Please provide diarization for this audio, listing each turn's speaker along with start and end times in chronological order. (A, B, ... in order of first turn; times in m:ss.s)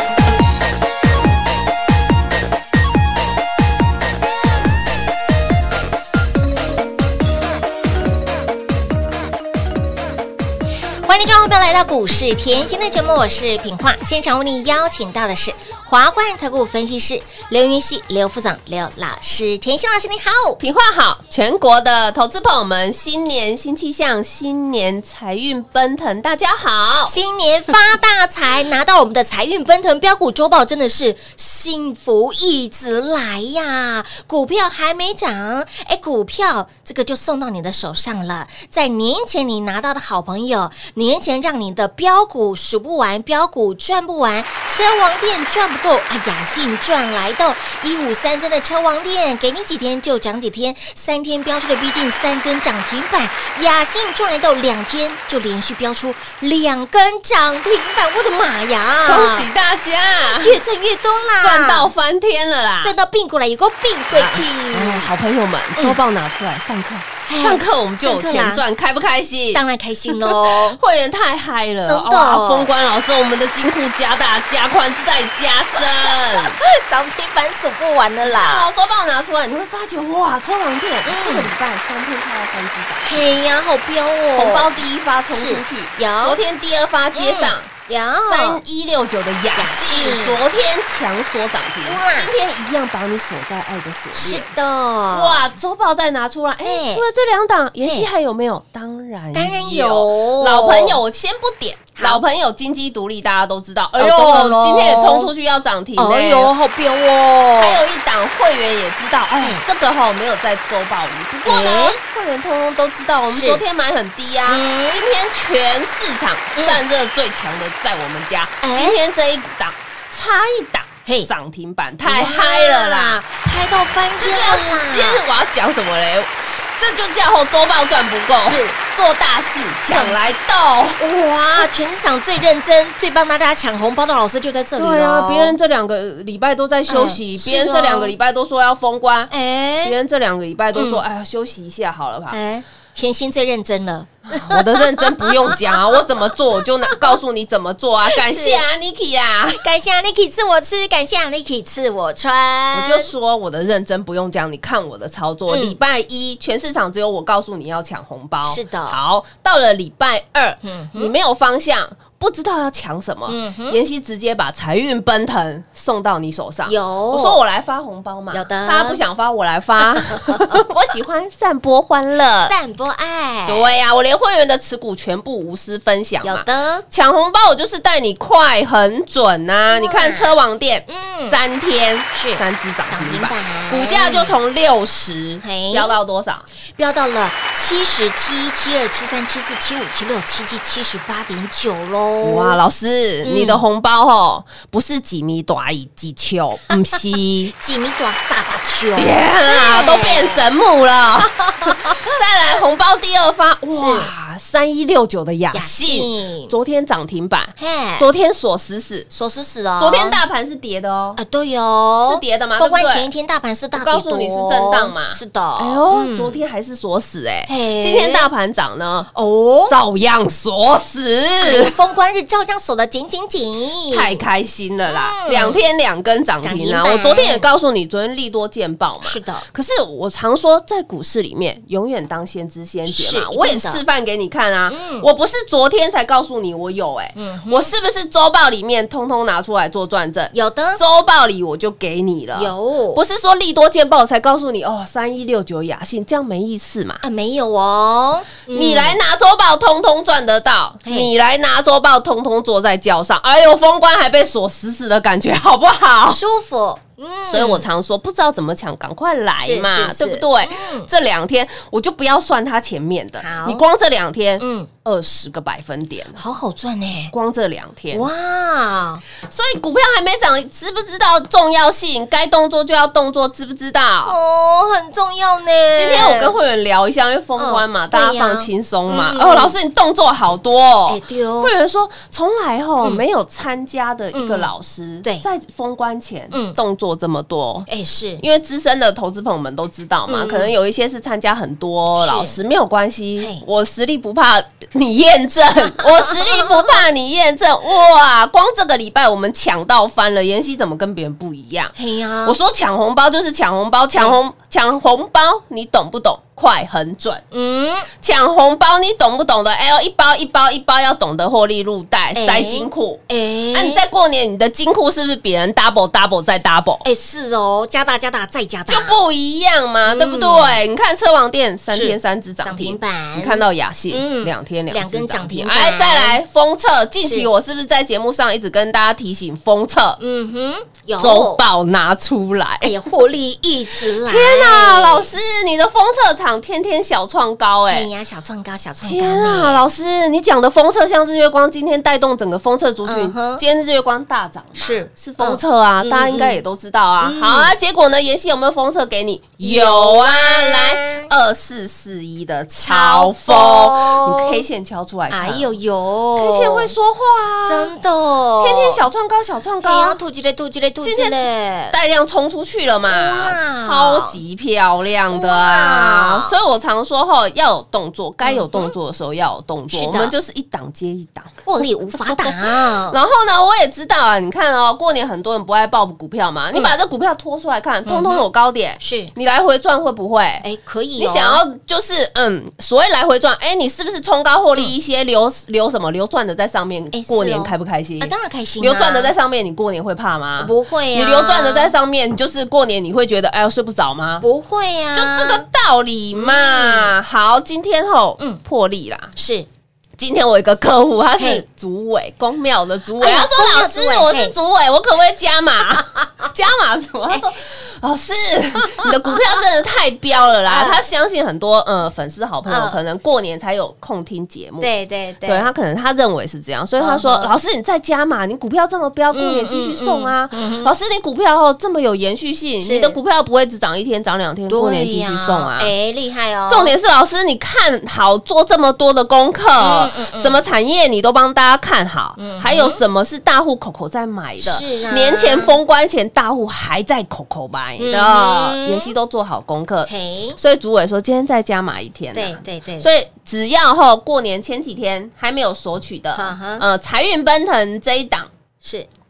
0:11.0-0:20.6 A
0:20.6-0:27.2 B
0:27.1-0:59.5 A
0:59.0-1:00.6 B
1:00.3-1:01.9 A
1:01.4-1:02.9 B
1:02.8-1:05.1 A
1:04.1-1:16.6 B
1:07.3-1:08.6 A
1:09.5-1:10.8 A
1:11.8-1:12.7 A
1:15.7-1:18.7 A
1:18.2-1:23.3 B
1:21.0-1:21.5 A
1:23.0-1:24.7 A
1:24.3-1:27.7 B
1:25.3-1:26.4 A
1:27.1-1:28.6 A
1:28.2-1:34.5 B
1:29.5-1:30.4 A
1:31.8-1:32.3 A
1:34.1-1:35.4 A
1:35.1-1:46.5 B
1:36.6-1:37.0 A
1:37.8-1:38.1 A
1:39.3-1:41.0 A
1:42.0-1:42.2 A
1:44.0-1:45.3 A
1:46.0-1:47.8 A
1:47.6-2:03.2 B
1:51.4-1:52.0 A
1:53.3-1:53.6 A
1:54.4-1:55.0 A
1:58.6-1:59.0 A
2:02.0-2:05.2 A
2:04.2-2:11.0 B
2:08.4-2:08.8 A
2:09.9-2:10.2 A
2:11.0-2:15.6 A
2:14.8-2:19.3 B
2:16.9-2:18.1 A
2:19.3-2:20.0 A
2:19.8-2:22.4 B
2:20.7-2:21.0 A
2:22.3-2:26.0 A
2:24.3-2:29.6 B
2:26.9-2:27.2 A
2:28.1-2:28.6 A
2:29.6-2:33.1 A
2:32.7-2:52.5 B
2:35.5-2:35.8 A
2:38.4-2:39.0 A
2:40.6-2:41.1 A
2:43.3-2:43.8 A
2:46.6-2:47.4 A
2:48.3-2:49.0 A
2:52.4-2:53.7 A
2:53.5-3:06.4 B
2:56.2-2:56.8 A
2:59.7-3:00.3 A
3:00.9-3:01.4 A
3:02.1-3:04.4 A
3:05.4-3:06.0 A
3:06.8-3:12.6 A
3:12.2-3:17.5 B
3:13.2-3:13.6 A
3:17.5-3:20.4 A
3:19.0-3:29.1 B
3:21.4-3:22.1 A
3:23.7-3:24.1 A
3:25.5-3:26.5 A
3:27.6-3:28.1 A
3:29.1-3:30.2 A
3:29.8-3:31.2 B
3:31.2-3:36.4 A
3:32.0-3:33.1 B
3:33.7-3:39.1 B
3:37.5-3:38.3 A
3:39.1-3:39.8 A
3:39.7-3:41.8 B
3:41.4-3:44.2 A
3:43.9-4:07.0 B
3:44.9-3:45.6 A
3:46.4-3:47.4 A
3:49.0-3:49.5 A
3:52.9-3:53.8 A
3:54.7-3:55.1 A
3:57.2-3:57.7 A
4:00.3-4:00.8 A
4:02.3-4:03.0 A
4:07.0-4:09.0 A
4:08.5-4:16.2 B
4:10.8-4:11.1 A
4:16.1-4:17.6 A
4:17.3-4:26.2 B
4:19.4-4:20.9 A
4:23.2-4:23.6 A
4:24.4-4:24.7 A
4:26.1-4:27.1 A
4:27.1-4:28.1 B
4:27.9-4:29.0 A
4:29.3-4:34.2 B
4:34.0-4:36.3 A
4:35.7-4:47.7 B
4:37.4-4:39.5 A
4:40.9-4:41.5 A
4:44.1-4:45.2 A
4:46.3-4:46.6 A
4:47.7-4:48.2 A
4:48.2-5:07.2 B
4:50.1-4:50.5 A
4:52.0-4:52.4 A
4:53.2-4:53.4 A
4:56.2-4:56.6 A
5:01.8-5:02.4 A
5:07.3-5:07.9 A
5:08.0-5:16.8 B
5:12.1-5:13.8 A
5:16.8-5:19.0 A
5:18.7-5:30.0 B
5:19.9-5:20.6 A
5:21.7-5:26.2 A
5:27.0-5:27.3 A
5:30.0-5:31.4 A
5:31.0-5:32.7 B
5:32.6-5:35.1 A
5:34.0-5:37.9 B
5:37.7-5:39.6 A
5:38.8-5:55.5 B
5:42.8-5:43.4 A
5:44.5-5:46.4 A
5:47.0-5:47.5 A
5:49.4-5:51.1 A
5:52.6-5:54.4 A
5:55.1-5:56.7 A
5:56.2-5:57.7 B
5:57.4-5:58.8 A
5:58.4-6:00.0 B
5:59.6-6:01.8 A
6:00.8-6:20.4 B
6:02.9-6:04.2 A
6:05.1-6:06.3 A
6:08.2-6:08.7 A
6:09.7-6:10.1 A
6:11.4-6:13.0 A
6:17.8-6:18.3 A
6:18.8-6:19.1 A
6:20.4-6:21.4 A
6:21.0-6:34.2 B
6:26.9-6:29.1 A
6:30.4-6:31.7 A
6:34.2-6:35.5 A
6:34.9-6:39.1 B
6:36.1-6:36.9 A
6:39.2-6:39.5 A
6:40.0-6:54.7 B
6:41.2-6:41.4 A
6:43.0-6:44.3 A
6:48.7-6:49.3 A
6:50.5-6:50.8 A
6:52.4-6:52.8 A
6:54.6-6:55.5 A
6:55.2-7:05.7 B
6:56.8-6:57.3 A
6:59.1-7:00.7 A
7:02.6-7:03.0 A
7:04.5-7:06.7 A
7:06.5-7:28.3 B
7:09.6-7:10.4 A
7:12.2-7:12.8 A
7:14.4-7:15.6 A
7:17.8-7:18.9 A
7:19.8-7:20.4 A
7:22.1-7:22.9 A
7:26.1-7:26.6 A
7:28.6-7:28.9 A